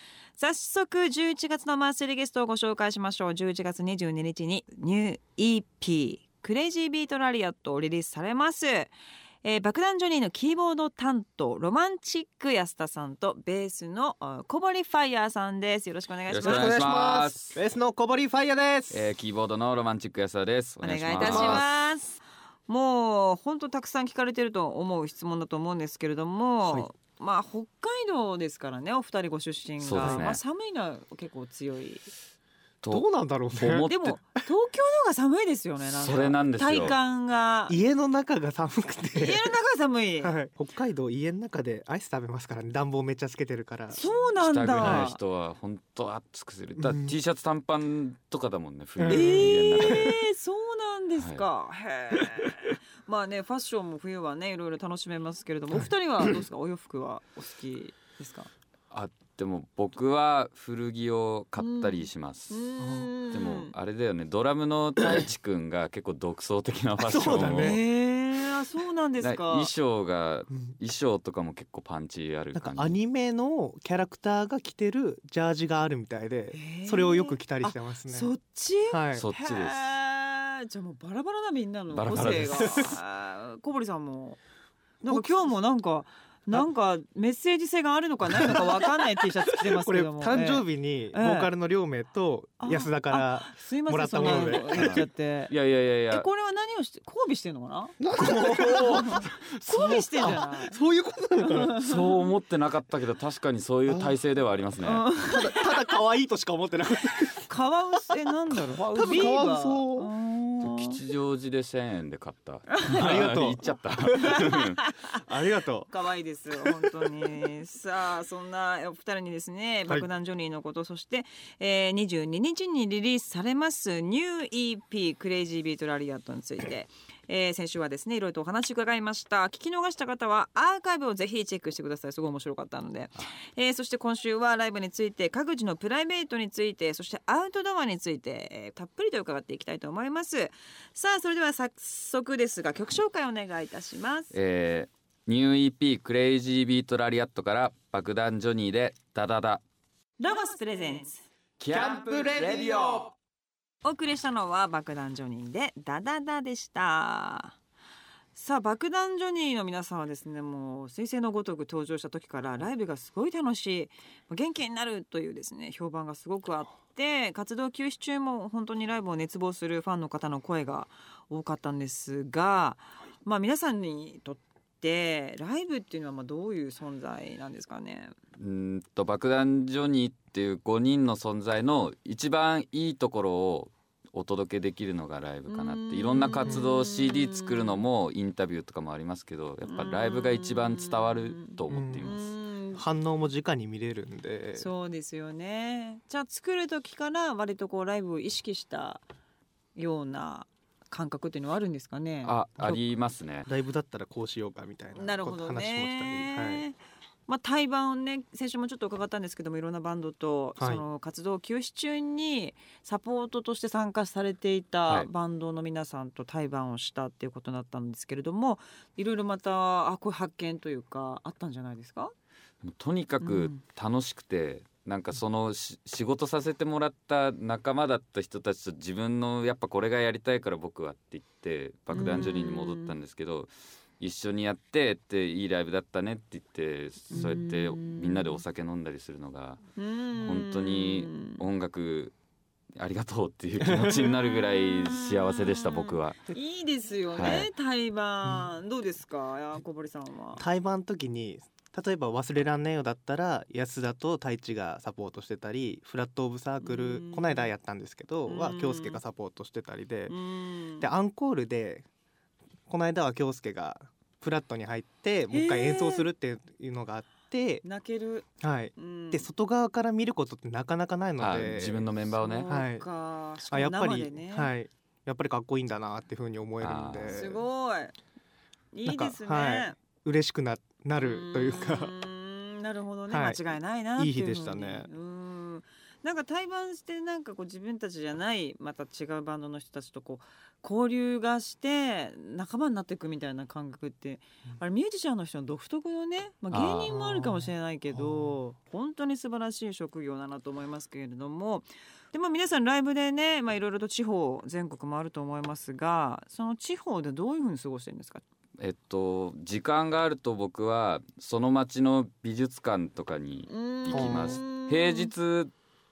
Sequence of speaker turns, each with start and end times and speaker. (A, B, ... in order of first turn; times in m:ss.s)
0:00.4-0:16.8 A
0:16.3-0:17.6 B
0:16.4-0:19.1 C
0:18.9-0:21.6 B
0:20.8-0:32.1 A
0:21.2-0:21.6 C
0:29.8-0:30.4 B
0:30.0-0:30.3 C
0:32.8-0:34.2 B
0:32.9-0:33.9 C
0:33.9-0:37.8 A
0:35.9-0:37.0 B
0:36.1-0:36.9 C
0:37.7-0:39.5 C
0:39.2-0:40.4 A
0:40.2-0:44.0 C
0:43.9-0:45.2 A
0:44.4-0:50.2 B
0:44.8-0:45.1 C
0:46.8-0:47.2 C
0:49.0-0:50.0 C
0:49.1-0:58.5 A
0:51.2-0:51.4 B
0:58.9-1:02.7 B
1:01.6-1:03.7 A
1:03.3-1:07.8 B
1:07.0-1:07.8 C
1:07.4-1:09.7 A
1:09.2-1:13.0 B
1:12.6-1:18.3 C
1:16.5-1:24.4 A
1:18.9-1:19.3 C
1:19.2-1:19.9 B
1:21.9-1:23.0 B
1:22.1-1:22.9 C
1:25.0-1:31.5 A
1:25.0-1:25.6 C
1:28.3-1:28.8 C
1:29.5-1:35.0 C
1:32.6-1:35.5 A
1:34.2-1:36.3 B
1:36.1-1:40.8 A
1:38.0-1:41.8 C
1:38.5-1:40.0 B
1:41.5-1:42.0 A
1:41.8-1:45.1 B
1:43.9-1:44.2 C
1:44.8-1:45.7 A
1:45.2-1:47.5 C
1:47.5-1:51.0 A
1:48.1-1:50.1 C
1:50.6-1:54.8 B
1:52.7-1:53.0 A
1:52.9-1:54.4 C
1:54.2-1:55.2 A
1:55.1-1:55.9 C
1:55.9-2:24.3 A
1:56.6-1:57.3 C
2:24.3-2:29.6 B
2:30.2-2:31.2 A
2:31.6-2:33.1 B
2:33.8-2:37.6 A
2:38.4-2:58.2 A
2:58.4-3:12.2 B
3:05.5-3:07.8 A
3:09.7-3:12.8 A
3:11.7-3:12.1 C
3:12.8-3:14.7 C
3:14.6-3:19.0 A
3:19.8-3:22.8 A
3:22.2-3:23.5 B
3:23.5-3:26.6 C
3:25.0-3:42.1 A
3:30.6-3:30.8 C
3:42.6-3:59.6 B
3:43.2-3:43.6 A
3:51.9-3:53.0 A
3:57.1-3:58.4 A
3:59.8-4:01.4 A
4:00.2-4:02.1 B
4:02.8-4:06.2 B
4:03.6-4:04.0 C
4:04.0-4:10.4 A
4:07.2-4:07.5 B
4:10.4-4:20.2 C
4:16.6-4:17.5 A
4:18.2-4:19.0 A
4:20.1-4:20.9 A
4:20.8-4:21.9 C
4:22.7-4:27.6 C
4:25.3-4:26.1 A
4:27.6-4:29.3 A
4:28.4-4:31.9 C
4:31.2-4:32.6 B
4:32.1-4:34.5 A
4:32.5-4:32.8 C
4:33.5-4:37.4 C
4:36.6-4:37.4 B
4:37.1-4:38.0 A
4:38.7-4:39.8 A
4:38.8-4:41.9 C
4:41.0-5:08.2 A
4:43.1-4:43.4 C
4:44.0-4:44.9 C
4:56.5-4:57.1 B
4:57.9-4:58.4 C
5:08.6-5:15.5 B
5:13.5-5:15.1 A
5:13.9-5:14.4 C